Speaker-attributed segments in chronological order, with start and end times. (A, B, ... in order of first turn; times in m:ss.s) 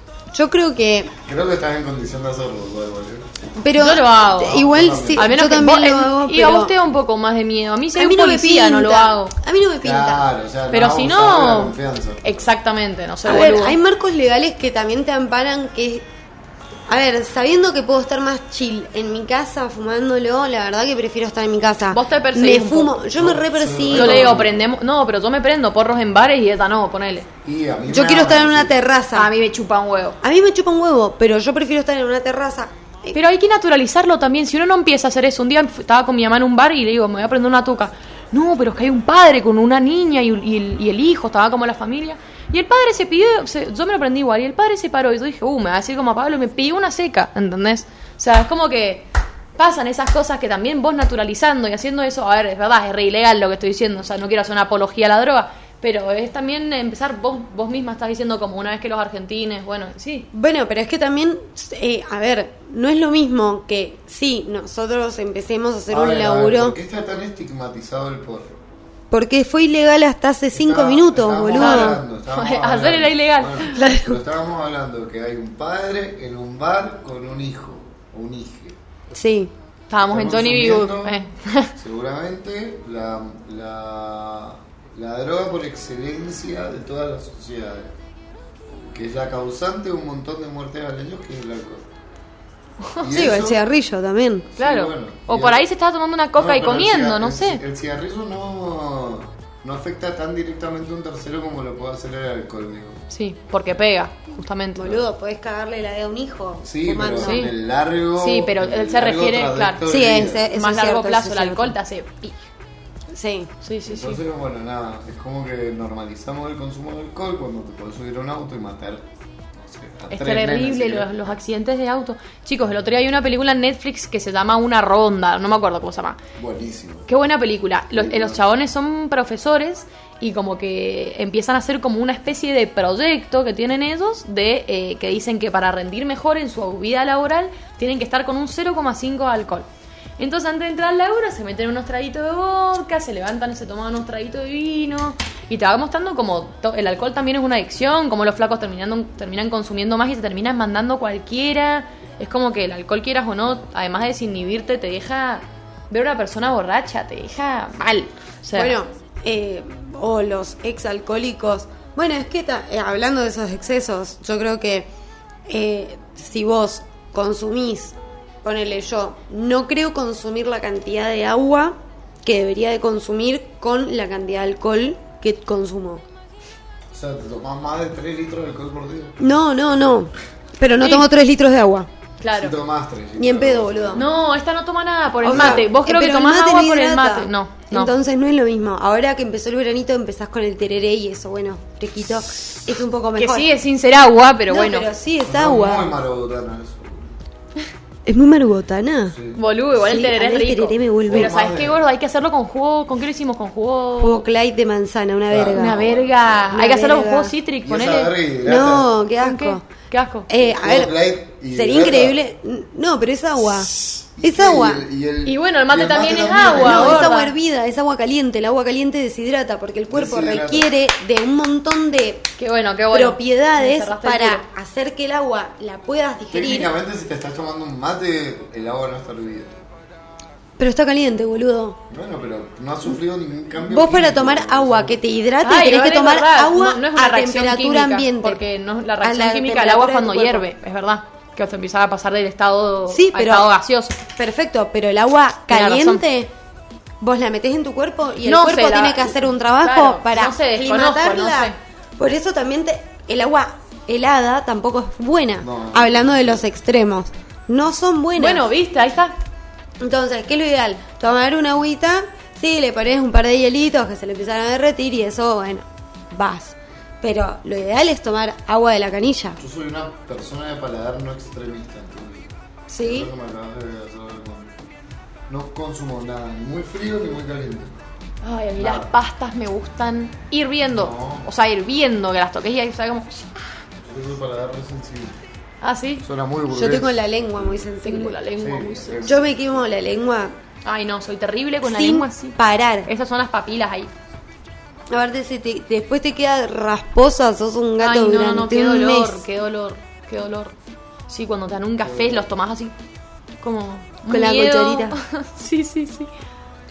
0:00.3-0:01.1 A
0:01.3-0:03.4 B
0:03.6-0:06.8 A
0:03.8-0:04.6 C
0:04.4-0:05.3 B
0:05.1-0:09.3 C
0:08.0-0:10.3 A
0:09.8-0:12.2 B
0:10.7-0:13.8 C
0:13.2-0:16.0 A
0:16.9-0:24.5 A
0:21.9-0:23.0 C
0:23.1-0:24.7 B
0:23.9-0:27.3 C
0:27.4-0:28.7 B
0:27.9-0:29.3 A
0:29.1-0:30.2 C
0:30.2-0:33.2 A
0:33.1-0:49.1 C
0:49.6-1:00.3 C
1:00.3-1:06.8 A
1:05.9-1:08.6 B
1:09.1-1:12.0 A
1:10.6-1:18.8 B
1:11.6-1:13.8 C
1:13.8-1:14.2 A
1:19.1-1:19.5 A
1:19.9-1:21.7 C
1:20.0-1:21.2 B
1:21.8-1:27.9 B
1:28.8-1:31.9 B
1:33.0-1:33.6 B
1:33.0-1:34.5 A
1:34.5-1:35.6 B
1:34.6-1:37.6 C
1:36.4-1:43.0 B
1:43.1-1:45.0 C
1:44.8-1:47.5 A
1:46.6-1:50.4 B
1:47.2-1:47.5 C
1:48.2-1:49.8 C
1:49.8-1:51.8 A
1:50.5-1:52.4 C
1:53.1-1:53.5 A
1:53.6-1:54.2 C
1:53.9-2:01.3 B
2:00.1-2:06.2 C
2:06.4-2:07.1 B
2:07.1-2:19.7 C
2:07.9-2:08.4 B
2:20.2-2:38.8 C
2:38.5-2:44.9 A
2:45.5-2:56.0 A
2:56.9-2:59.2 B
2:59.2-3:01.9 A
3:00.8-3:01.1 C
3:02.2-3:02.6 C
3:02.3-3:04.1 B
3:03.2-3:04.1 A
3:03.9-3:07.9 C
3:05.2-3:13.5 A
3:05.3-3:05.7 B
3:13.2-3:14.9 C
3:14.5-3:16.0 A
3:15.2-3:17.1 B
3:18.1-3:19.2 A
3:19.1-3:19.4 B
3:19.4-3:24.2 C
3:19.8-3:21.4 A
3:21.0-3:21.8 B
3:24.0-3:25.8 A
3:25.3-3:26.6 B
3:25.6-3:28.1 C
3:26.5-3:27.4 A
3:27.6-3:28.9 B
3:28.4-3:29.6 A
3:29.2-3:30.3 C
3:30.3-3:30.9 A
3:30.4-3:32.2 B
3:31.5-3:34.9 A
3:33.7-3:37.2 B
3:35.2-3:37.3 C
3:36.4-3:42.3 A
3:39.9-3:40.7 B
3:42.4-3:44.5 C
3:42.9-3:46.7 A
3:46.3-3:49.6 B
3:50.6-3:51.8 A
3:51.9-3:55.0 B
3:53.6-3:58.4 A
3:55.4-4:04.0 C
3:59.0-4:00.5 A
4:02.9-4:03.5 A
4:04.1-4:06.3 A
4:05.5-4:06.0 C
4:07.0-4:18.5 A
4:08.2-4:11.6 C
4:15.4-4:16.4 B
4:18.2-4:19.1 C
4:19.8-4:29.4 A
4:29.4-4:34.5 B
4:32.7-4:33.1 A
4:35.3-4:37.8 B
4:38.2-4:43.4 C
4:38.6-4:38.9 B
4:40.7-4:41.3 B
4:43.8-4:45.2 B
4:45.6-4:46.0 C
4:46.0-4:47.7 B
4:46.5-4:48.2 A
4:47.8-4:49.1 C
4:48.3-4:49.6 B
4:49.0-4:50.4 A
4:50.6-4:53.9 C
4:51.6-4:52.9 A
4:54.9-4:59.2 A
4:57.8-5:00.6 C
5:01.1-5:02.7 C
5:01.8-5:02.3 B
5:03.4-5:06.1 C
5:04.1-5:05.0 A